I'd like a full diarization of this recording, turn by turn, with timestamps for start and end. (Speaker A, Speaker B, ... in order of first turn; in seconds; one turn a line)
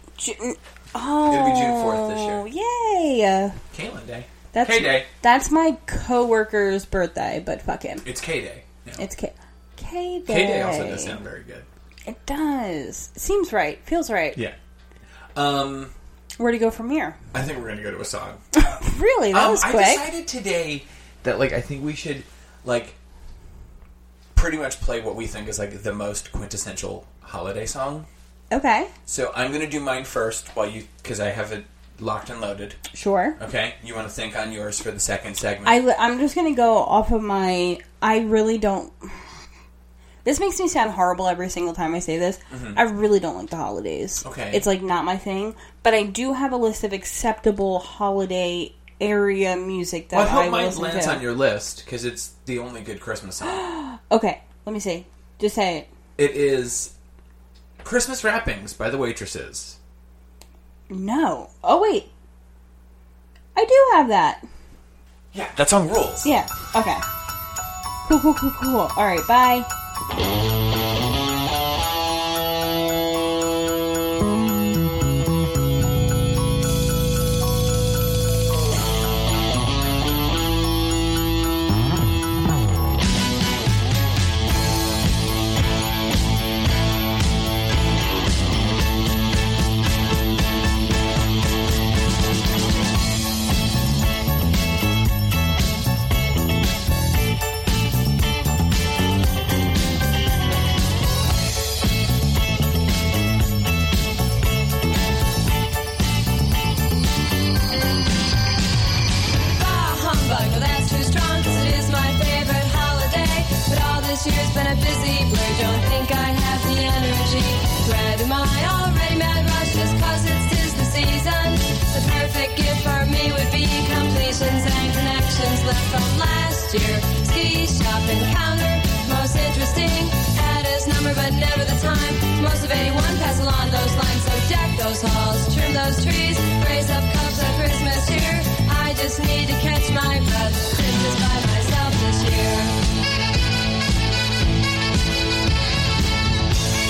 Speaker A: 0.2-3.6
Speaker B: 1.3-2.4
Speaker B: 3.7-5.1
Speaker A: 4.5-8.1
Speaker B: 8.0-9.0
Speaker A: 9.0-11.2
Speaker B: 10.3-11.7
Speaker A: 12.1-14.4
Speaker B: 15.3-15.9
Speaker A: 16.4-17.2
Speaker B: 17.3-18.4
Speaker A: 18.5-20.1
Speaker B: 19.3-22.9
Speaker B: 24.4-28.1
Speaker A: 28.5-28.9
Speaker B: 29.1-32.8
Speaker A: 32.9-33.4
Speaker B: 33.4-35.8
Speaker A: 35.6-39.2
Speaker A: 40.2-51.2
Speaker B: 42.5-42.8
Speaker B: 44.2-44.6
Speaker B: 50.1-53.6
Speaker A: 53.4-55.9
Speaker B: 56.2-56.9
Speaker B: 57.8-59.8
Speaker A: 60.9-62.1
Speaker A: 63.5-64.4
Speaker B: 65.3-66.3
Speaker A: 66.2-67.0
Speaker A: 68.0-69.7
Speaker C: 109.4-142.8